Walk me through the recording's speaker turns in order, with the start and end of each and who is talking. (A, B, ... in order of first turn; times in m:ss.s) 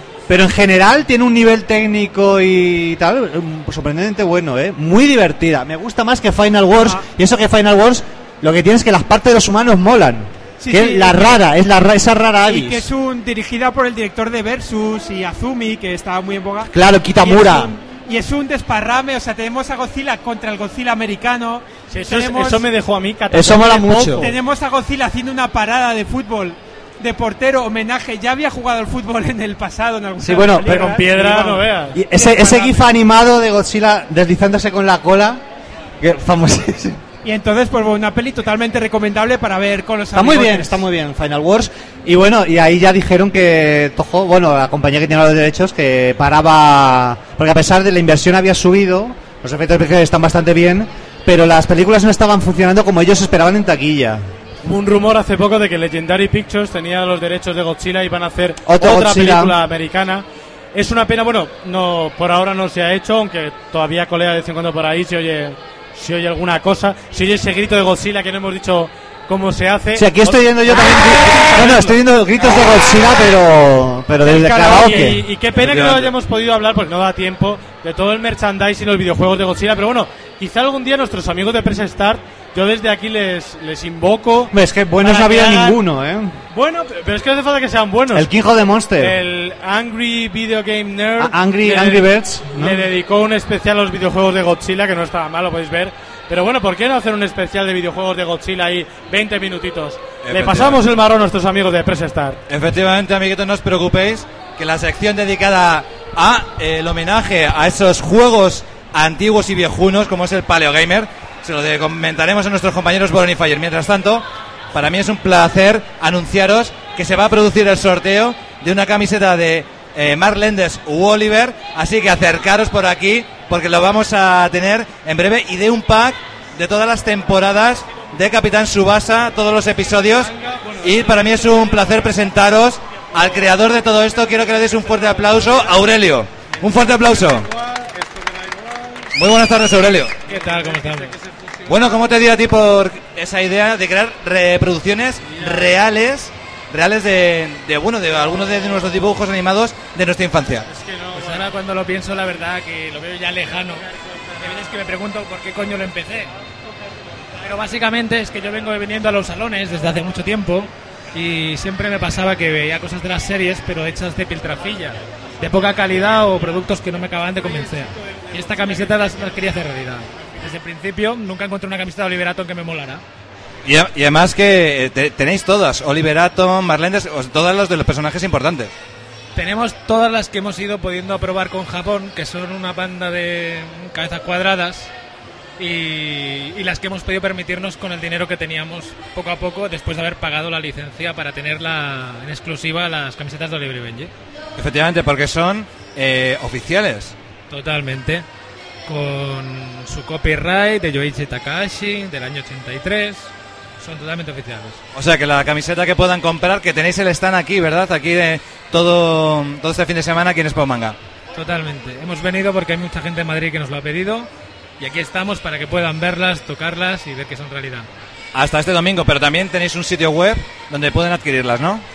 0:00.3-0:12.9 A
0:10.6-0:11.4 B
0:12.4-0:22.7 B
0:16.7-0:17.7 A
0:21.9-0:24.4 C
0:23.3-0:24.2 A
0:24.2-0:32.8 B
0:30.2-0:31.0 A
0:30.6-0:32.0 C
0:31.9-0:35.4 A
0:36.0-0:37.0 A
0:37.2-0:40.8 B
0:40.1-0:54.2 A
0:54.6-1:12.0 C
0:58.6-0:59.6 A
1:10.0-1:15.2 A
1:14.3-1:25.8 C
1:14.5-1:14.9 B
1:15.6-1:16.1 D
1:24.5-1:26.4 A
1:26.5-1:28.3 C
1:28.1-1:29.2 A
1:29.0-1:42.4 C
1:31.2-1:32.8 A
1:40.2-1:40.8 D
1:42.5-2:17.4 D
2:19.2-2:20.2 D
2:20.3-2:21.2 E
2:20.3-2:21.0 C
2:21.7-2:30.7 D
2:25.4-2:25.7 C
2:30.7-2:31.4 C
2:31.1-2:33.9 E
2:34.4-2:36.3 E
2:37.4-2:53.0 E
2:53.6-2:58.7 D
2:59.4-3:04.9 E
3:05.6-3:14.1 E
3:14.6-3:17.1 D
3:17.5-3:18.2 E
3:18.9-3:24.8 E
3:24.9-3:31.0 D
3:31.4-3:34.3 E
3:34.8-3:37.9 E
3:38.3-3:41.8 D